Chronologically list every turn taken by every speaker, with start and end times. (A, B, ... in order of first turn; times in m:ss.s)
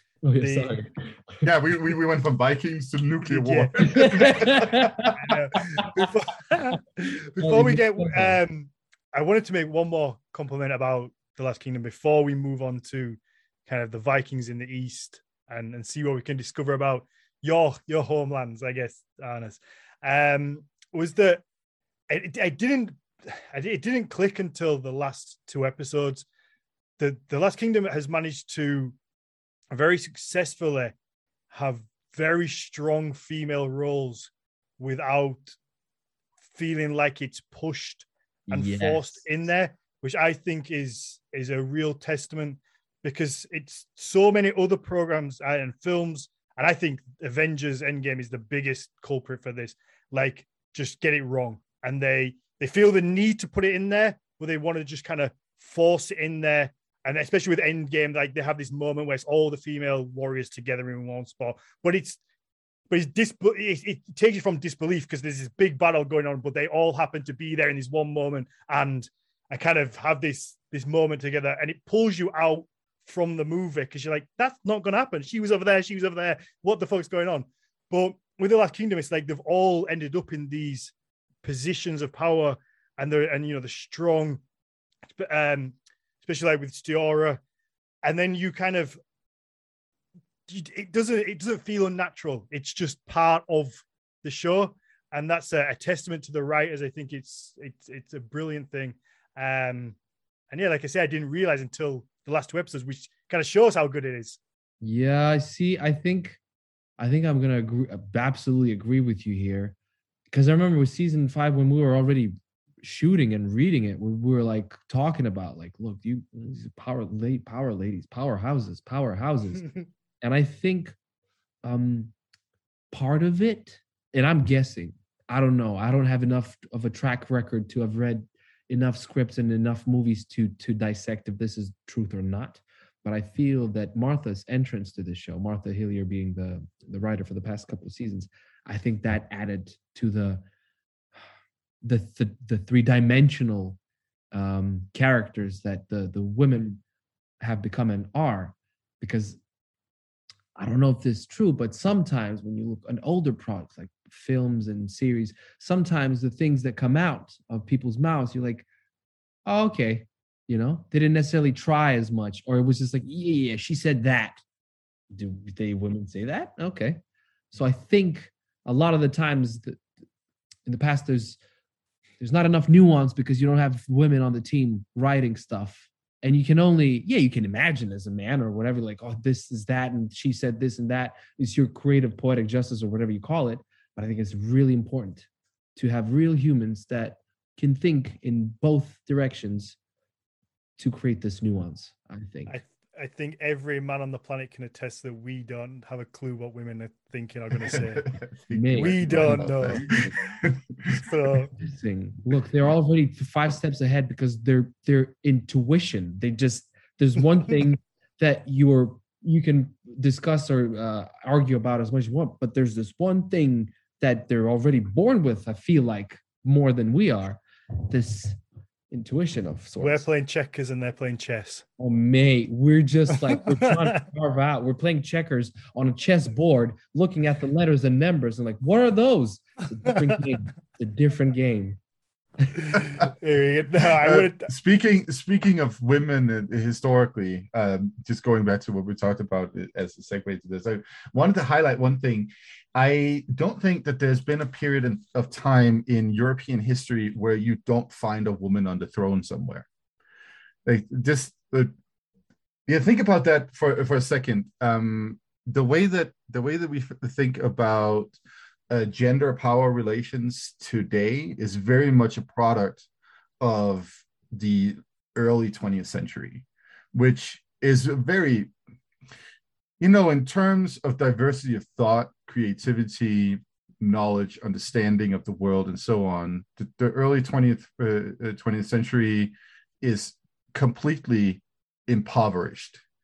0:00.2-0:01.5 A
0:00.4-0:00.8 B
0:01.4-0:05.0 C
0:03.2-0:04.5 B
0:03.8-0:05.2 A
0:05.1-0:21.4 B
0:07.4-0:08.4 A
0:22.1-0:26.2 B
0:27.0-0:29.0 B
0:29.7-0:30.9 B
0:31.5-0:35.6 B
0:36.5-1:02.2 B
0:38.5-0:39.3 A
1:02.9-1:24.4 B
1:25.2-1:27.4 B
1:28.0-1:29.0 B
1:30.5-1:40.0 B
1:40.5-1:44.4 B
1:44.8-1:46.4 A
1:47.0-1:49.7 A
1:50.3-1:59.7 A
2:00.2-2:01.0 A
2:01.6-2:02.1 A
2:02.9-2:20.4 A
2:21.8-2:23.8 A
2:24.3-2:26.8 A
2:27.4-2:29.4 A
2:30.6-2:38.6 A
2:39.4-2:44.4 A
2:45.1-2:47.0 A
2:47.5-2:49.8 A
2:50.6-2:51.4 A
2:52.2-3:09.8 A
3:10.8-3:12.5 A
3:12.5-3:18.0 B
3:18.0-3:21.0 C
3:18.5-3:20.2 A
3:18.7-3:19.9 B
3:21.0-3:21.5 B
3:21.6-3:38.4 A
3:38.9-3:40.0 A
3:39.8-3:41.6 B
3:41.8-3:51.8 A
3:43.3-3:44.0 B
3:49.9-3:50.1 B
3:52.6-3:54.5 B
3:54.0-4:09.7 C
4:10.6-4:11.7 C
4:12.7-4:18.1 C
4:18.7-4:22.9 C
4:23.4-4:28.5 C
4:29.8-4:42.8 C